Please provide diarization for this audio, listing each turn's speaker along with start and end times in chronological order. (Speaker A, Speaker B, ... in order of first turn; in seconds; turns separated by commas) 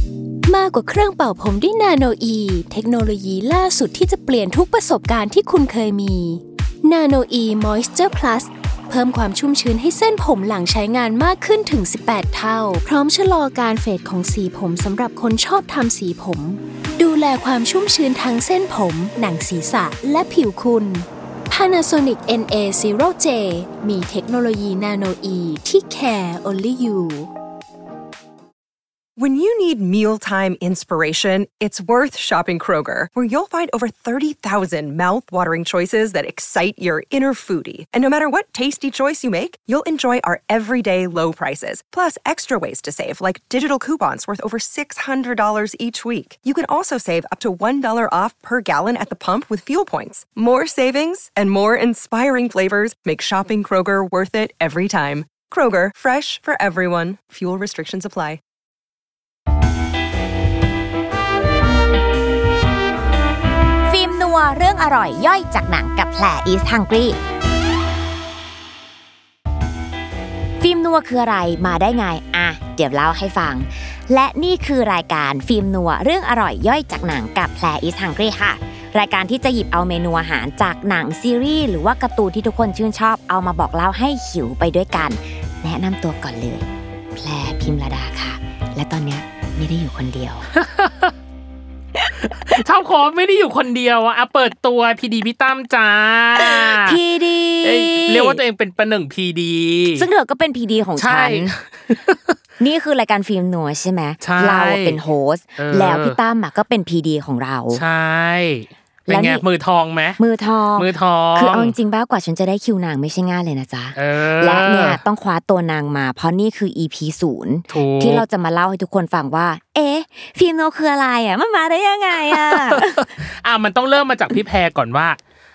Speaker A: 0.5-27.3, Speaker B: 29.2-58.4, Speaker C: 63.9-67.2, Speaker C: 70.6-90.5, Speaker D: 90.5-91.1, Speaker D: 92.4-97.0, Speaker C: 96.4-98.4, Speaker D: 97.6-100.1, Speaker C: 99.9-101.5, Speaker D: 101.0-102.3, Speaker C: 102.6-107.8, Speaker D: 104.2-105.0, Speaker D: 105.6-106.2, Speaker D: 107.7-110.2, Speaker C: 109.1-109.4, Speaker C: 110.2-123.0, Speaker D: 110.8-111.7, Speaker D: 113.9-115.0, Speaker D: 117.7-118.2, Speaker D: 122.3-125.2